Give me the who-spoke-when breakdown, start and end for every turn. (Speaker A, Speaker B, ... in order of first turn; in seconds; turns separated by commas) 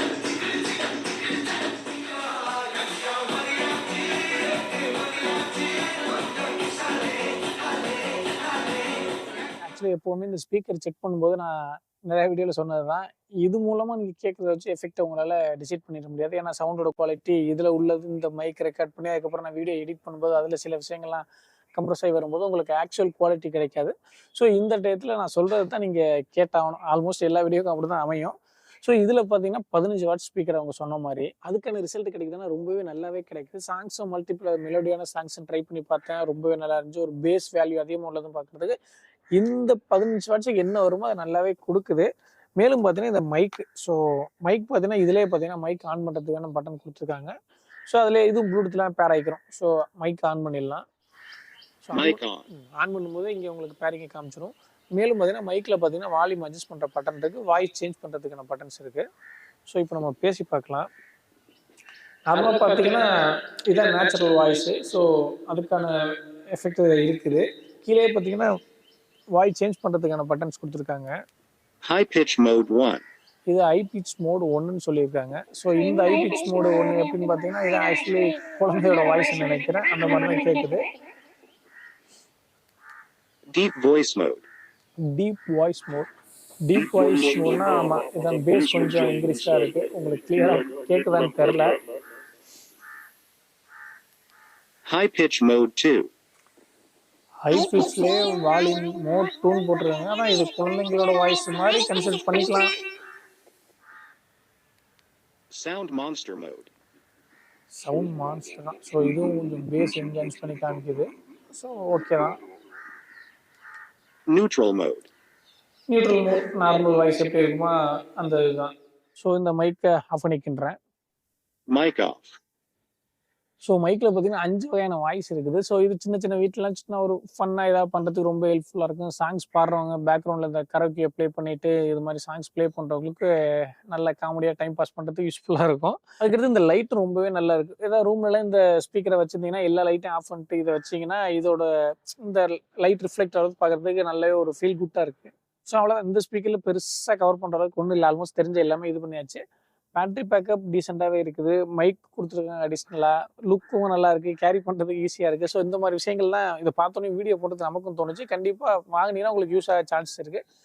Speaker A: 9.6-38.8, Speaker A: 39.4-47.3, Speaker A: 47.9-50.8, Speaker A: 51.8-59.0, Speaker B: 51.9-52.4, Speaker A: 59.7-60.9, Speaker A: 62.3-63.1, Speaker A: 63.7-68.5, Speaker A: 69.3-71.1, Speaker B: 71.8-73.0, Speaker A: 73.5-80.8, Speaker B: 83.5-84.4, Speaker A: 85.1-86.1, Speaker A: 86.7-91.8, Speaker B: 94.8-96.1, Speaker A: 97.4-102.7, Speaker B: 105.5-106.7, Speaker A: 107.7-112.4, Speaker B: 114.3-115.1, Speaker A: 115.9-120.8, Speaker B: 121.7-122.4, Speaker A: 123.6-149.4, Speaker A: 149.9-160.4